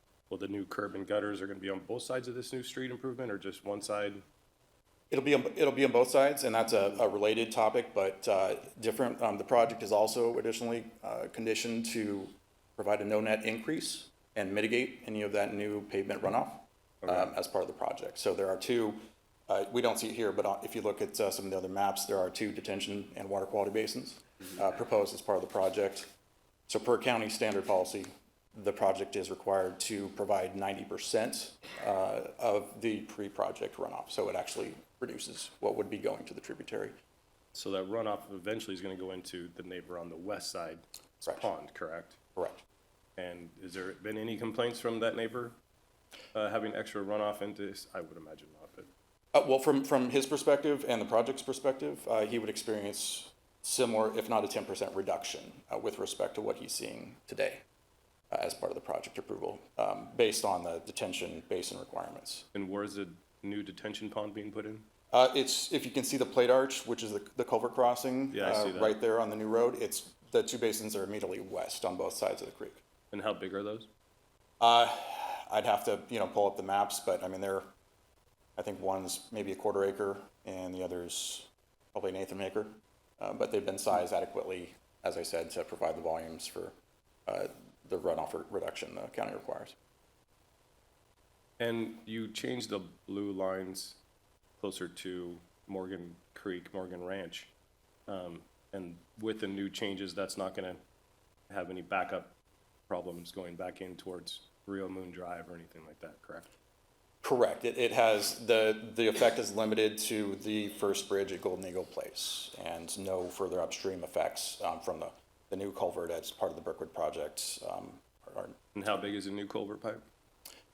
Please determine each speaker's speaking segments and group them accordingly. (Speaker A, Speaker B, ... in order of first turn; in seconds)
Speaker A: 0.3-4.2, 17.0-17.3, 37.5-42.2, 43.2-45.6, 46.3-48.9, 62.5-64.9, 68.3-69.0, 73.1-73.9, 91.6-94.0, 94.6-97.5, 98.1-100.8, 101.5-102.4, 102.9-106.5, 118.7-120.1
Speaker B: 5.1-26.1, 26.7-37.0, 41.2-41.5, 42.4-42.6, 49.3-57.6, 58.3-62.5, 65.1-72.8, 74.6-77.7, 78.6-86.8, 87.3-89.8, 107.2-118.6